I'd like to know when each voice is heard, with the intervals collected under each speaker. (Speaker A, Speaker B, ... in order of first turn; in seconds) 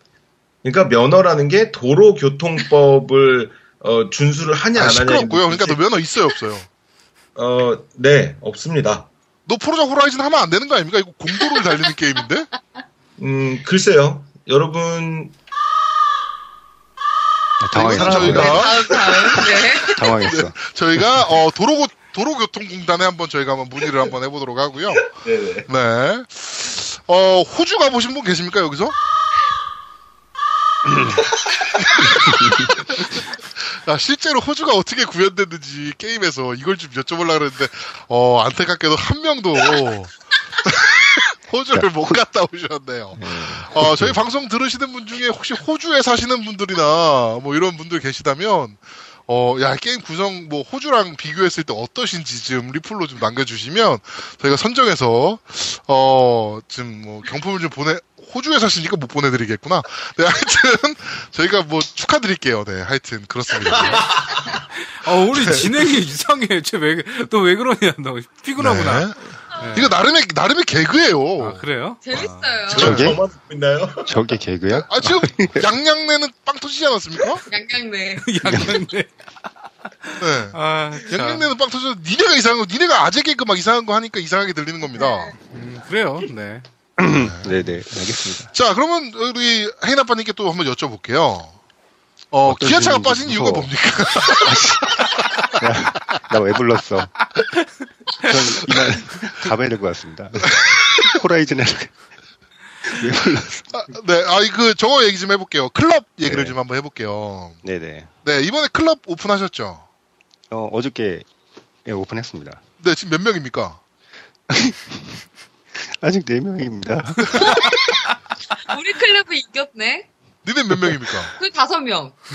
Speaker A: 0.6-5.8, 7.3-9.1, 13.2-15.3, 17.7-19.6, 25.1-25.7, 63.7-64.4, 72.7-74.1
Speaker B: 4.7-6.7, 9.4-12.5, 17.7-18.8, 20.2-25.1, 25.7-29.0, 31.8-64.2, 65.3-65.7, 68.6-71.7, 72.7-73.2, 74.7-77.4, 80.2-85.3, 87.2-87.6, 88.5-91.5, 92.3-95.5, 100.4-101.1, 103.7-107.6, 108.2-109.8, 112.8-113.8, 120.4-121.3
Speaker C: 17.6-18.6, 19.8-20.6, 32.2-32.7, 41.7-42.2, 43.1-44.2, 72.7-73.2, 74.0-75.7, 78.5-78.8, 87.0-88.5, 92.4-97.1, 98.2-101.9, 102.8-103.9, 106.2-106.6, 107.6-108.1, 110.5-111.3, 111.8-112.6, 114.5-115.2, 115.7-117.7
Speaker D: 18.3-20.2, 63.8-64.0, 72.0-73.0, 77.5-78.3, 85.0-85.3, 117.3-118.0, 118.7-120.1, 121.3-122.2
Speaker E: 64.8-70.0, 71.4-72.5, 78.2-79.1, 80.0-81.5, 85.5-86.7